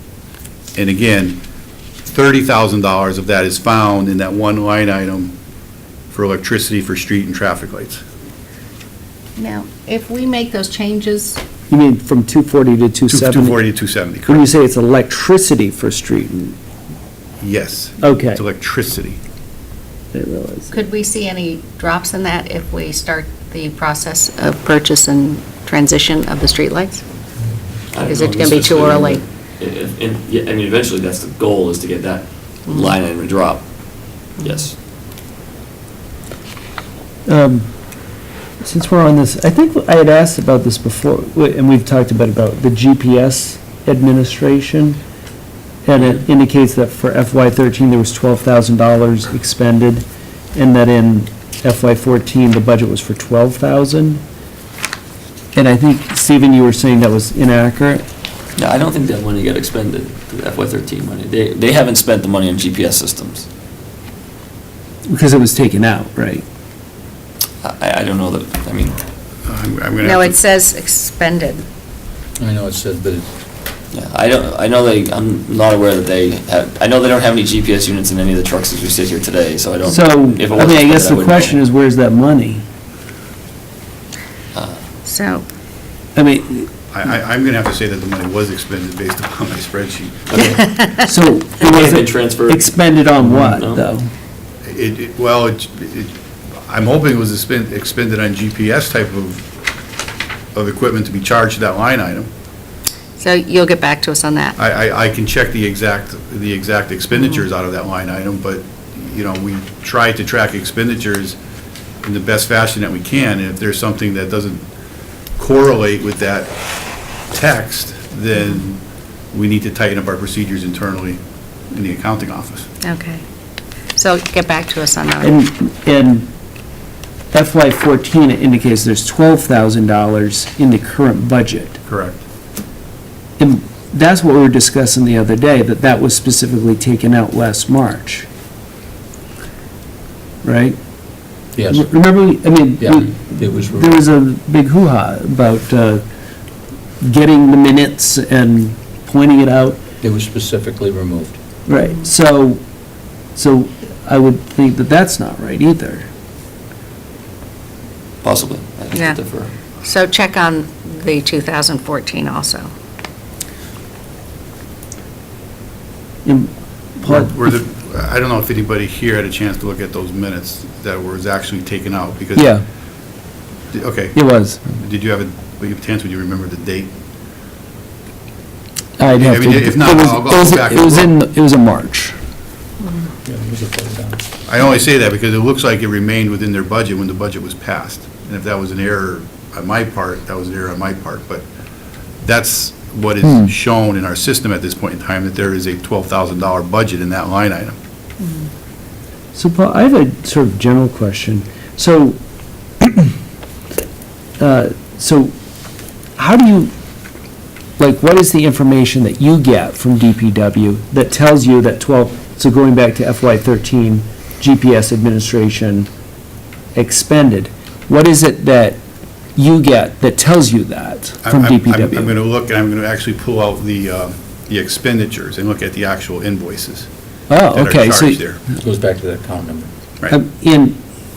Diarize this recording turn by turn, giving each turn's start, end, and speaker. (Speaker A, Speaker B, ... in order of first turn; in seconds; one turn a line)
Speaker A: 0.8-1.4
Speaker A: 2.1-5.3
Speaker A: 6.1-8.0
Speaker B: 9.4-11.4
Speaker C: 11.7-13.6
Speaker A: 13.1-14.5
Speaker C: 14.3-16.6
Speaker A: 17.4-19.2
Speaker C: 18.0-18.4
Speaker C: 20.1-20.8
Speaker B: 20.7-27.0
Speaker D: 27.9-33.7
Speaker B: 28.0-29.2
Speaker B: 32.7-32.9
Speaker D: 34.4-34.7
Speaker C: 37.2-37.7
Speaker C: 38.6-45.0
Speaker C: 45.8-50.0
Speaker C: 50.5-54.2
Speaker C: 55.5-58.0
Speaker D: 58.6-63.5
Speaker C: 65.1-66.4
Speaker D: 67.6-69.0
Speaker A: 69.5-70.3
Speaker B: 70.0-71.6
Speaker E: 72.4-73.3
Speaker D: 73.9-81.6
Speaker C: 79.8-82.6
Speaker D: 84.5-84.8
Speaker B: 85.0-85.4
Speaker C: 86.1-86.7
Speaker A: 86.9-90.4
Speaker D: 90.3-90.6
Speaker B: 90.4-91.1
Speaker C: 91.0-94.1
Speaker D: 91.6-93.8
Speaker A: 94.7-96.1
Speaker A: 96.7-99.5
Speaker A: 100.5-102.3
Speaker B: 103.2-104.5
Speaker A: 104.6-111.4
Speaker A: 112.0-114.7
Speaker A: 115.4-116.5
Speaker A: 117.3-122.7
Speaker B: 122.8-123.2
Speaker B: 124.0-125.4
Speaker C: 125.2-126.3
Speaker C: 127.3-131.8
Speaker A: 131.8-132.2
Speaker C: 133.4-138.3
Speaker C: 140.4-140.8
Speaker E: 141.6-141.9
Speaker C: 141.7-146.0
Speaker E: 142.8-144.0
Speaker C: 147.0-149.8
Speaker E: 150.0-151.4
Speaker C: 151.7-152.6
Speaker C: 153.3-156.1
Speaker D: 158.2-159.5
Speaker B: 158.9-159.2
Speaker B: 159.8-162.7
Speaker C: 166.2-167.4
Speaker A: 167.0-172.5
Speaker C: 172.3-172.6
Speaker A: 173.7-176.9
Speaker C: 174.1-174.7
Speaker C: 179.0-182.2
Speaker A: 179.1-181.1
Speaker E: 183.2-184.2
Speaker A: 184.5-191.4
Speaker A: 192.2-197.8
Speaker C: 193.2-193.5
Speaker B: 198.2-198.5
Speaker C: 199.3-202.2
Speaker C: 202.8-203.1
Speaker C: 204.4-205.3
Speaker C: 206.2-206.7
Speaker C: 207.8-215.9
Speaker C: 216.7-218.8
Speaker C: 219.3-222.1
Speaker A: 221.2-226.9
Speaker C: 227.3-228.2
Speaker A: 227.5-228.4
Speaker E: 228.6-229.7
Speaker C: 230.1-230.8